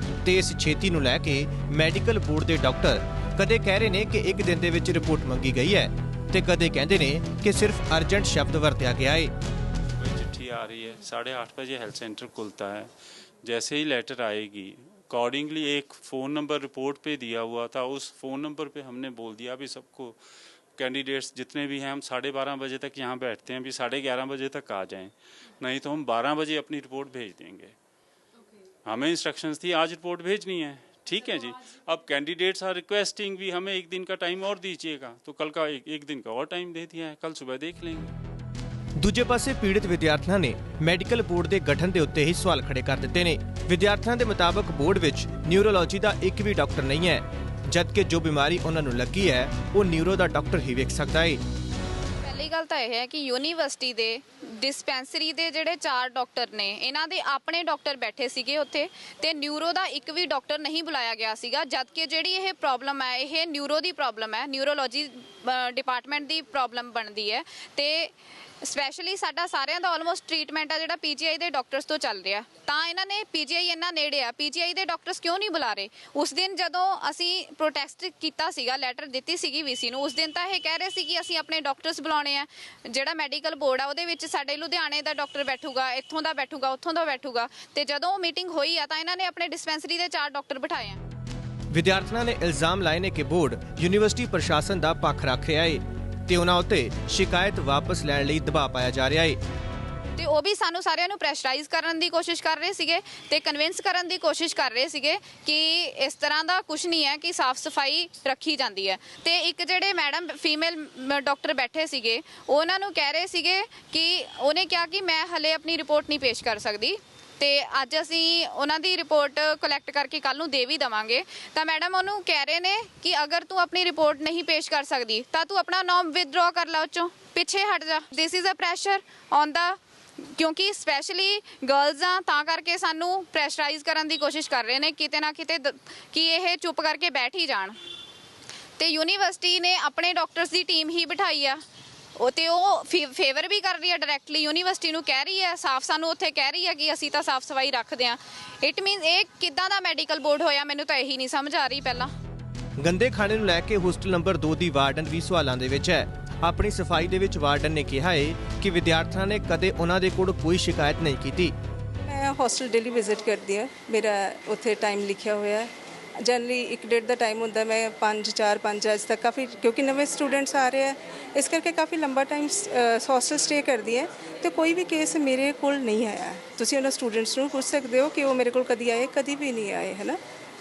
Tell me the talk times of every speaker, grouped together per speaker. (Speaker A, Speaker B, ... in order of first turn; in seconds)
Speaker A: 0.2-9.3, 39.0-51.4, 91.7-99.4, 152.8-161.5
Speaker B: 10.0-12.9, 13.4-20.2, 20.8-27.7, 28.8-38.1
Speaker C: 52.2-91.0, 100.2-137.8, 138.8-141.6, 142.2-152.1
Speaker D: 162.0-165.7, 166.2-180.2